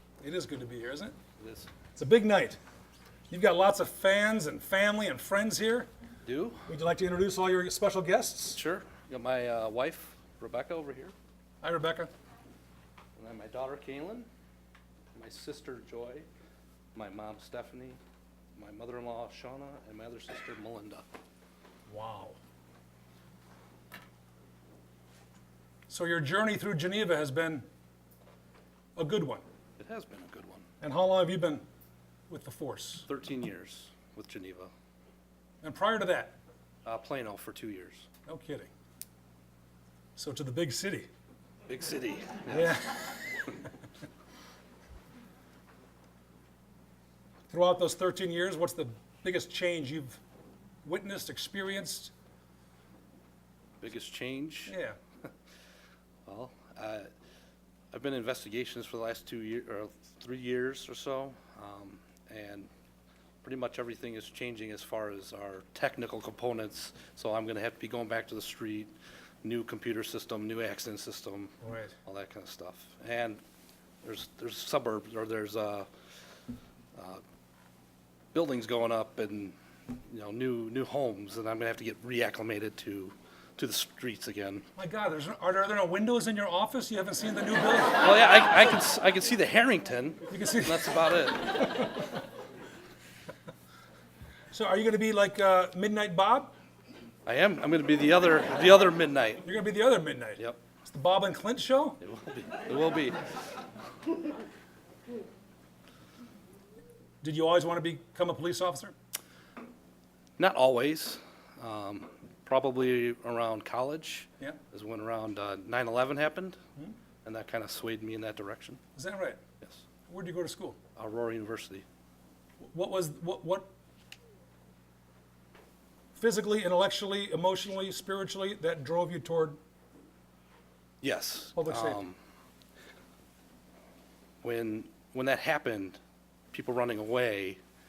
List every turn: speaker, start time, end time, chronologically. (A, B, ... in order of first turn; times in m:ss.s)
0:00.2-0:01.2 A
0:01.4-0:01.7 B
0:02.0-0:02.6 A
0:03.3-0:05.9 A
0:06.2-0:06.7 B
0:06.7-0:08.6 A
0:08.5-0:11.1 B
0:11.6-0:12.1 A
0:13.2-0:14.3 B
0:15.1-0:16.3 B
0:16.9-0:18.0 B
0:18.6-0:21.1 B
0:21.9-0:22.4 A
0:25.9-0:27.7 A
0:29.0-0:29.4 A
0:29.8-0:30.6 B
0:30.8-0:31.6 A
0:32.3-0:33.1 A
0:33.1-0:34.7 B
0:35.6-0:36.4 A
0:36.8-0:38.1 B
0:38.3-0:38.7 A
0:40.2-0:41.1 A
0:41.7-0:43.1 B
0:42.5-0:43.1 A
0:47.5-0:50.2 A
0:50.8-0:52.1 A
0:53.8-0:54.8 B
0:54.7-0:55.0 A
0:56.3-0:57.1 B
0:57.9-1:02.7 B
1:03.4-1:08.9 B
1:09.4-1:13.4 B
1:11.6-1:11.9 A
1:14.0-1:15.9 B
1:17.0-1:17.2 B
1:18.3-1:24.7 B
1:24.8-1:28.0 A
1:28.0-1:31.7 B
1:30.3-1:32.1 A
1:34.5-1:36.5 A
1:37.2-1:39.5 B
1:39.4-1:42.0 A
1:42.0-1:43.2 B
1:47.2-1:48.9 A
1:50.4-1:56.6 B
1:57.2-1:58.8 B
1:59.0-1:59.4 A
2:00.1-2:00.8 A
2:01.0-2:01.8 B
2:02.6-2:03.7 A
2:06.2-2:09.6 A
2:11.0-2:12.2 B
2:11.6-2:12.0 A
2:14.4-2:16.0 B
2:16.5-2:17.6 B